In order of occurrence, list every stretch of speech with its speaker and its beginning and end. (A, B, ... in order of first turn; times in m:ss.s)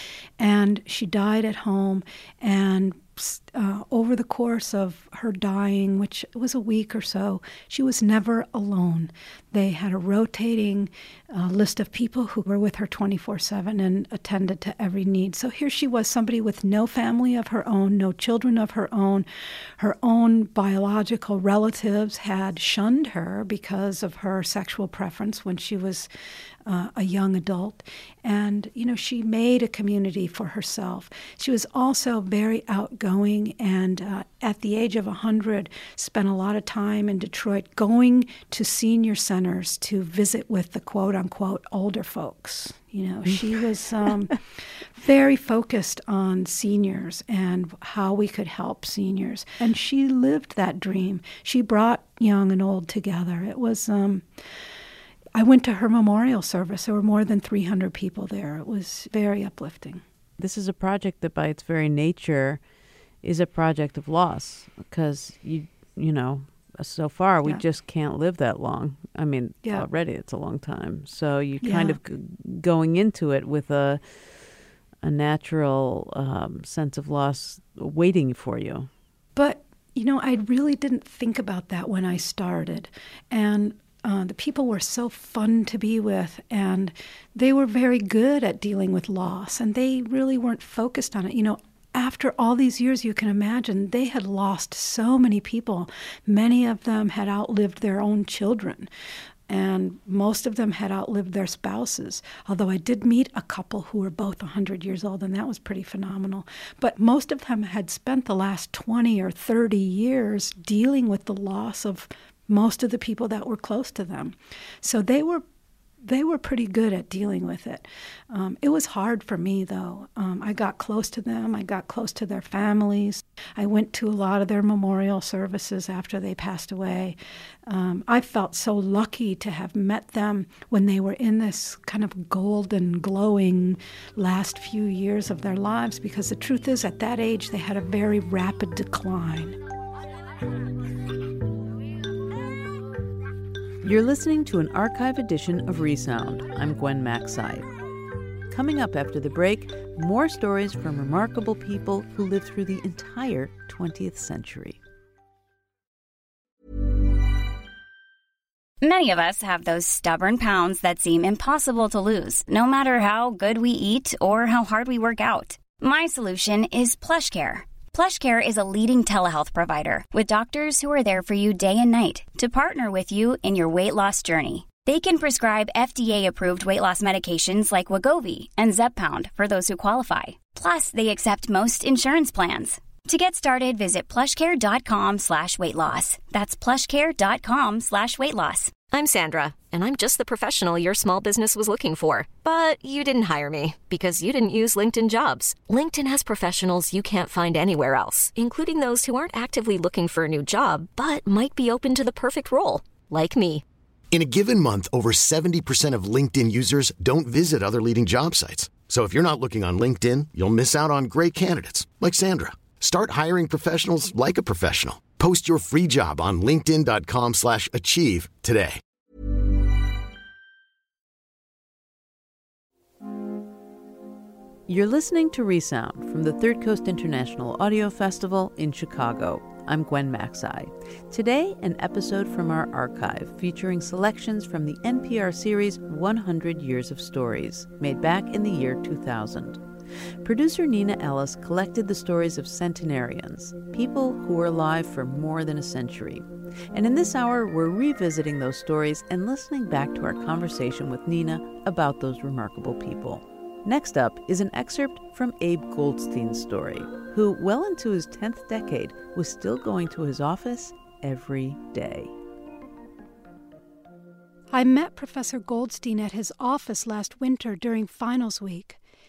0:00.4-0:19.3 A
0:19.8-0:26.1 A
0:26.6-0:54.2 A
0:55.3-1:00.0 A
1:00.4-1:02.6 B
1:03.2-1:14.0 B
1:11.6-1:12.0 A
1:15.0-1:18.9 B
1:19.3-1:38.9 A
1:39.5-1:55.4 A
1:56.0-2:19.6 A
2:23.8-2:27.7 B
2:28.5-2:34.8 B
2:38.8-3:08.8 C
3:08.9-3:23.6 D
3:24.1-3:38.8 E
3:44.7-3:59.6 B
4:00.2-4:22.1 B
4:24.5-4:28.8 A